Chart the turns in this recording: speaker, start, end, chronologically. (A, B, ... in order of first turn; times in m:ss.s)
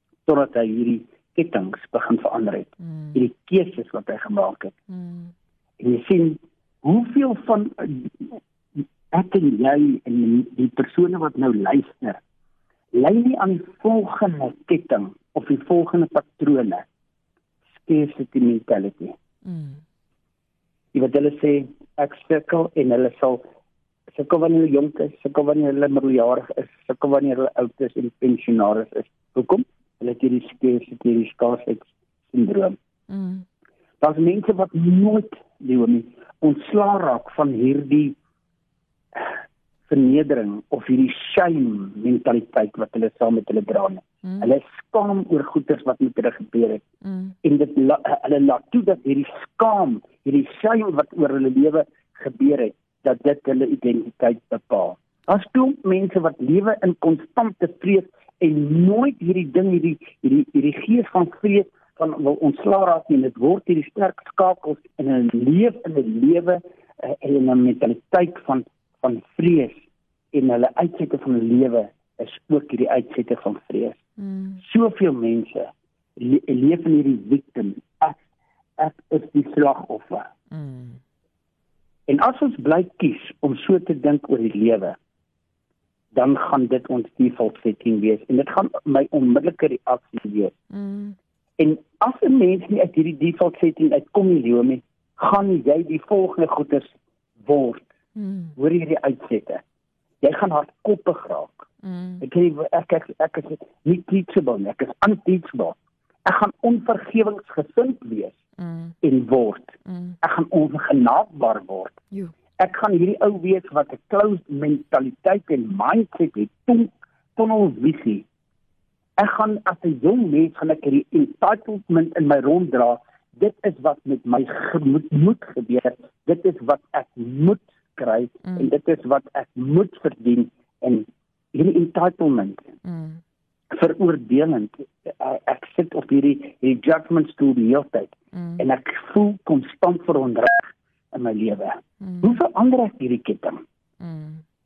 0:00.3-0:04.7 A
0:02.8-0:03.2 B
0:04.9-0:05.3 B
0:05.8-0:12.2 A
0:12.9-0:16.9 A
0:17.8-0:19.1 A
0:19.4-0:19.8 B
0:20.9-0:23.5 A
0:24.1-0:32.8 A
0:33.1-0:33.4 B
0:34.0-0:38.2 A
0:39.9-0:46.8 A
0:44.2-0:44.5 B
0:47.0-0:47.4 B
0:47.4-1:14.0 A
1:14.2-1:14.6 B
1:14.6-1:18.2 A
1:18.8-1:20.3 A
1:20.5-1:21.0 B
1:22.1-1:25.0 A
1:26.1-1:30.6 A
1:30.7-1:31.2 B
1:31.6-1:36.9 A
1:37.4-1:37.9 A
1:38.2-1:38.6 B
1:38.6-1:39.6 A
1:40.2-1:41.6 A
1:41.8-1:42.2 B
1:42.2-1:48.4 A
1:48.6-1:49.0 B
1:49.0-1:51.9 A
1:49.9-1:50.2 B
1:52.6-1:58.3 A
1:59.2-2:12.6 A
2:08.4-2:08.7 B
2:12.8-2:13.2 B
2:13.7-2:23.6 A
2:18.3-2:18.6 B
2:22.0-2:22.4 B
2:24.0-2:24.4 B